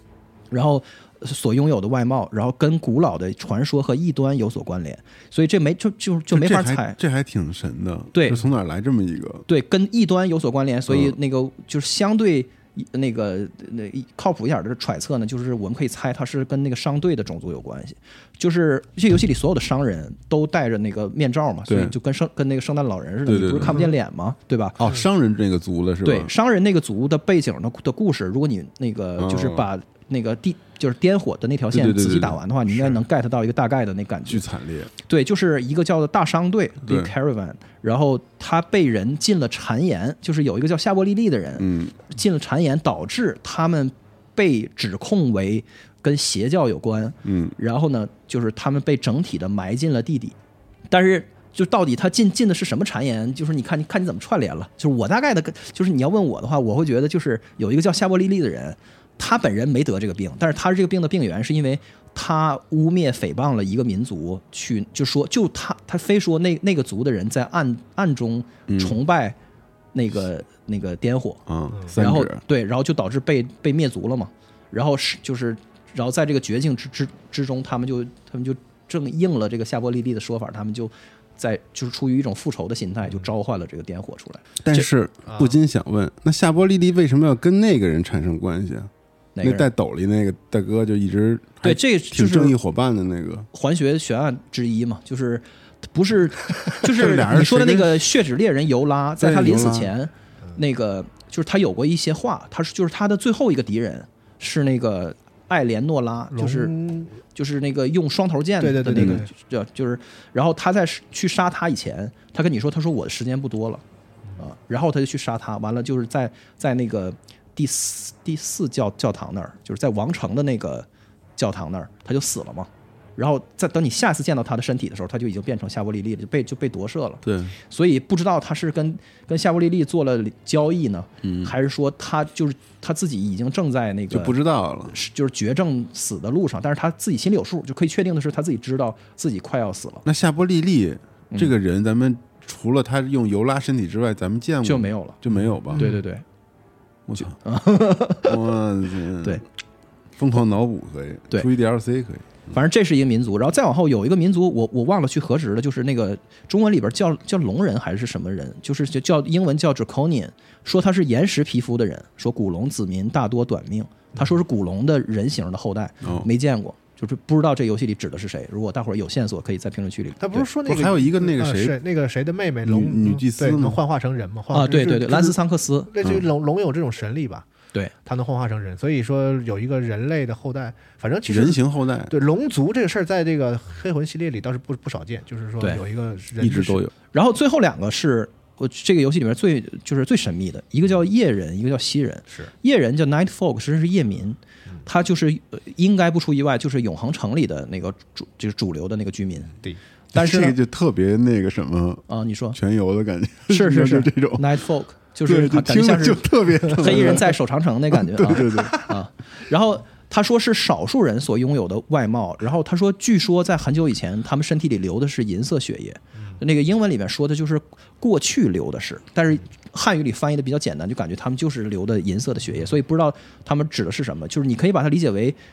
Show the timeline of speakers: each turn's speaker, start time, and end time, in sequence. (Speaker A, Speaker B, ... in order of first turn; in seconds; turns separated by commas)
Speaker A: 0.5-7.0, Speaker B: 6.3-9.5, Speaker A: 8.1-8.4, Speaker A: 9.5-25.0, Speaker B: 10.9-11.2, Speaker B: 21.7-21.9, Speaker B: 23.3-23.9, Speaker B: 24.8-26.3, Speaker A: 26.0-34.5, Speaker B: 29.2-29.7, Speaker B: 31.7-32.4, Speaker B: 34.3-34.9, Speaker A: 35.0-50.4, Speaker B: 36.8-37.1, Speaker B: 41.6-42.0, Speaker B: 47.2-47.5, Speaker A: 50.9-69.4, Speaker B: 68.7-69.0, Speaker A: 69.9-84.9, Speaker B: 71.5-72.4, Speaker B: 84.6-88.9, Speaker C: 85.3-85.6, Speaker A: 89.4-89.7, Speaker B: 89.4-93.5, Speaker A: 91.6-92.5, Speaker A: 93.5-106.8, Speaker B: 96.8-98.1, Speaker B: 99.2-99.9, Speaker C: 106.3-107.2, Speaker A: 107.3-113.8, Speaker C: 108.6-109.3, Speaker B: 109.0-109.2, Speaker A: 114.4-134.4, Speaker B: 127.2-127.5, Speaker B: 131.2-131.5, Speaker B: 134.1-135.0, Speaker A: 134.9-140.0, Speaker B: 140.1-145.9, Speaker A: 144.6-145.2, Speaker C: 145.3-146.0, Speaker A: 145.7-146.2, Speaker B: 147.1-147.4, Speaker A: 147.2-148.4, Speaker B: 148.2-149.4, Speaker B: 150.2-152.5, Speaker A: 152.5-170.5, Speaker B: 166.0-166.3, Speaker C: 170.2-177.5, Speaker B: 170.6-171.8, Speaker B: 172.7-173.8, Speaker A: 174.5-175.9, Speaker C: 178.1-186.9, Speaker B: 181.3-182.1, Speaker B: 186.4-186.9, Speaker A: 187.1-199.6, Speaker A: 200.1-200.6, Speaker B: 200.1-204.6, Speaker A: 202.1-202.6, Speaker A: 203.5-225.4, Speaker B: 205.3-207.4, Speaker B: 207.9-209.0